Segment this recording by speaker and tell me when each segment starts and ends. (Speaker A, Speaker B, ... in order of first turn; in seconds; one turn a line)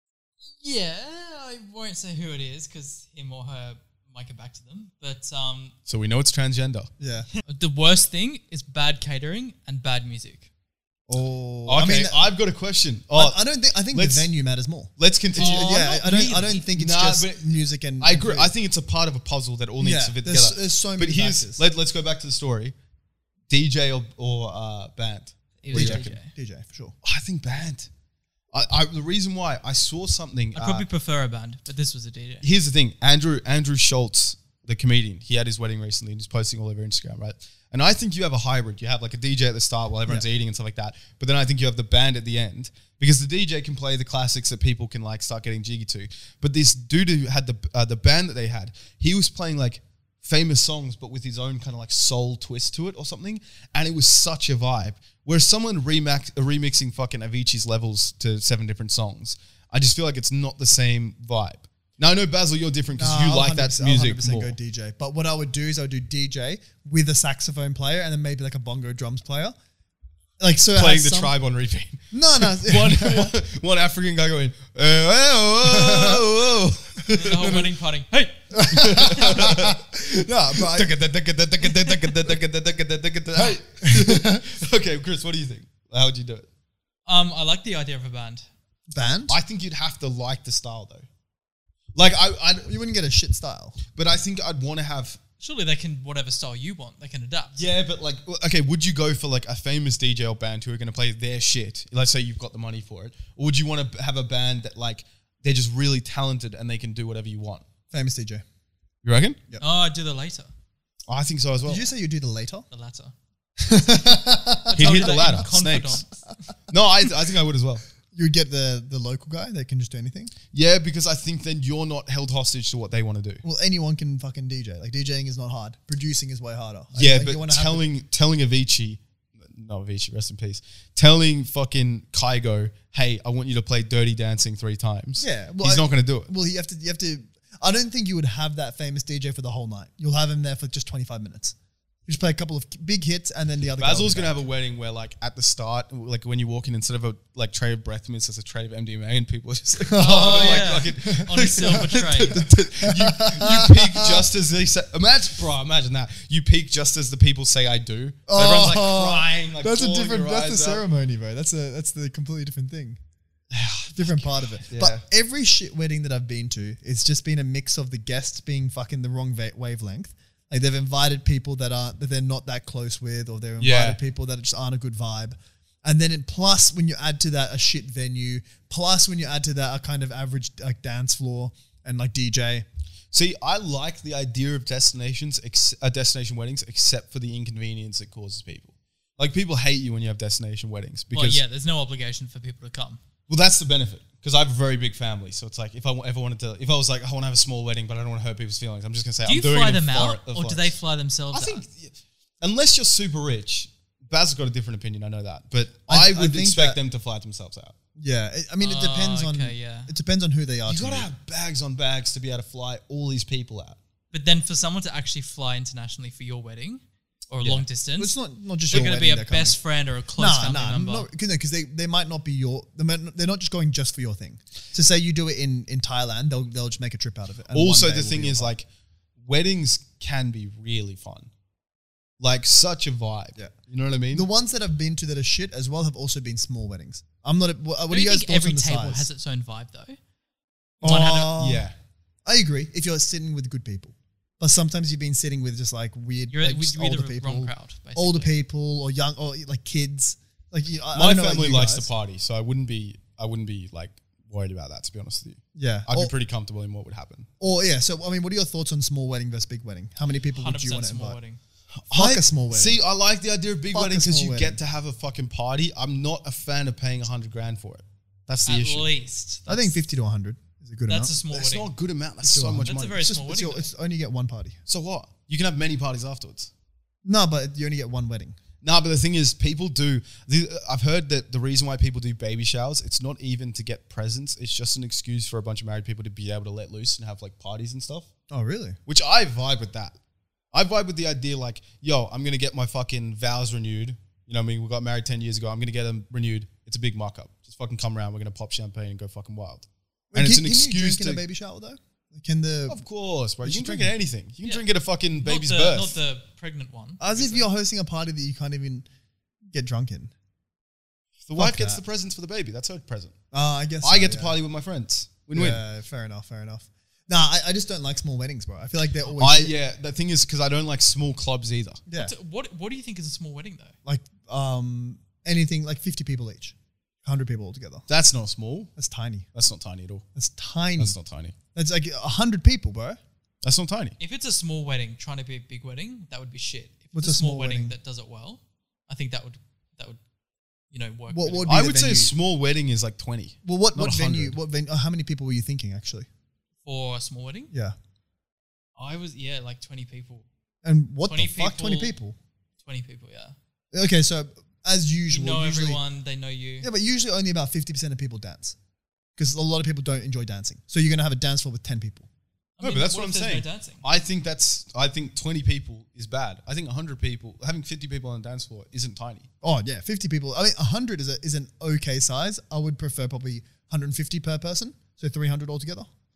Speaker A: 0.6-5.8
Speaker B: 5.9-6.9
Speaker C: 7.0-7.3
Speaker A: 7.4-10.5
Speaker C: 11.1-12.3
Speaker B: 11.7-13.4
Speaker C: 13.1-18.5
Speaker B: 13.9-14.3
Speaker B: 15.0-16.1
Speaker A: 15.3-16.7
Speaker B: 16.7-22.7
Speaker C: 19.8-21.6
Speaker B: 23.5-26.1
Speaker A: 25.6-26.3
Speaker C: 25.7-26.9
Speaker B: 27.0-27.9
Speaker B: 28.5-30.9
Speaker A: 30.6-32.5
Speaker B: 32.4-64.5
Speaker C: 62.9-69.5
Speaker C: 70.4-71.3
Speaker B: 70.8-77.7
Speaker C: 72.1-73.3
Speaker C: 75.6-76.3
Speaker A: 77.1-78.4
Speaker C: 78.5-80.9
Speaker B: 78.7-86.5
Speaker C: 81.9-82.3
Speaker C: 83.4-84.5
Speaker A: 87.1-88.5
Speaker C: 88.9-89.4
Speaker B: 89.3-91.1
Speaker B: 92.0-92.7
Speaker C: 92.7-93.8
Speaker B: 94.0-95.2
Speaker A: 95.4-97.6
Speaker B: 97.5-107.7
Speaker C: 107.9-108.4
Speaker B: 109.0-109.4
Speaker A: 109.6-110.5
Speaker B: 111.1-111.8
Speaker C: 111.7-112.7
Speaker A: 112.7-113.1
Speaker C: 113.6-115.4
Speaker A: 114.7-116.1
Speaker B: 114.7-116.0
Speaker B: 116.7-117.8
Speaker C: 118.1-120.3
Speaker B: 120.5-123.4
Speaker C: 123.4-127.9
Speaker B: 126.9-136.3
Speaker C: 135.2-141.6
Speaker C: 142.1-144.4
Speaker B: 143.8-160.8
Speaker C: 149.8-154.3
Speaker A: 150.0-152.4
Speaker C: 158.3-163.0
Speaker B: 163.5-165.0
Speaker C: 163.9-182.7
Speaker B: 173.6-174.0
Speaker B: 183.1-191.4
Speaker A: 191.1-193.0
Speaker B: 193.3-200.8
Speaker A: 199.2-201.6
Speaker B: 201.3-207.8
Speaker C: 205.9-206.8
Speaker C: 208.0-211.1
Speaker A: 208.6-209.9
Speaker B: 210.7-213.8
Speaker A: 214.1-218.2
Speaker C: 218.0-219.6
Speaker A: 218.7-221.1
Speaker C: 220.2-228.5
Speaker B: 227.5-228.7
Speaker B: 229.2-231.3
Speaker B: 232.2-234.3
Speaker C: 234.1-239.1
Speaker A: 237.9-240.0
Speaker C: 240.8-241.7
Speaker A: 240.8-241.4
Speaker B: 240.8-241.8
Speaker C: 242.2-251.9
Speaker A: 246.3-248.3
Speaker B: 250.9-257.3
Speaker C: 255.6-256.1
Speaker C: 257.4-261.2
Speaker A: 260.3-261.4
Speaker B: 261.8-268.9
Speaker C: 261.9-262.8
Speaker C: 263.7-264.6
Speaker A: 268.4-269.8
Speaker C: 269.5-271.2
Speaker A: 270.9-271.7
Speaker B: 271.3-273.0
Speaker C: 272.2-274.6
Speaker A: 272.6-273.7
Speaker B: 274.7-276.5
Speaker C: 277.1-278.4
Speaker B: 278.6-288.1
Speaker C: 288.3-288.8
Speaker B: 288.9-289.9
Speaker B: 290.5-301.2
Speaker C: 300.1-302.8
Speaker B: 302.7-306.0
Speaker C: 303.4-303.9
Speaker A: 305.2-307.5
Speaker C: 307.0-308.9
Speaker C: 309.5-310.1
Speaker B: 311.3-313.1
Speaker C: 311.4-311.8
Speaker C: 313.3-314.4
Speaker B: 313.8-315.6
Speaker C: 315.3-319.5
Speaker B: 319.2-321.8
Speaker C: 321.9-322.1
Speaker A: 321.9-323.7
Speaker C: 323.9-327.9
Speaker B: 327.9-328.7
Speaker C: 328.8-329.3
Speaker B: 329.3-330.0
Speaker C: 330.1-331.0
Speaker B: 330.8-331.4
Speaker C: 331.6-333.0
Speaker B: 333.4-334.0
Speaker A: 334.0-340.0
Speaker C: 336.9-337.8
Speaker A: 340.7-341.6
Speaker C: 341.1-342.1
Speaker B: 341.5-344.4
Speaker C: 343.4-346.1
Speaker A: 346.6-347.5
Speaker C: 347.5-347.8
Speaker A: 348.8-350.3
Speaker C: 350.6-352.2
Speaker A: 351.1-351.9
Speaker A: 352.6-353.4
Speaker C: 353.7-355.8
Speaker A: 355.1-356.7
Speaker C: 356.6-358.6
Speaker C: 359.2-362.1
Speaker A: 362.6-363.8
Speaker B: 362.6-369.3
Speaker C: 369.4-375.9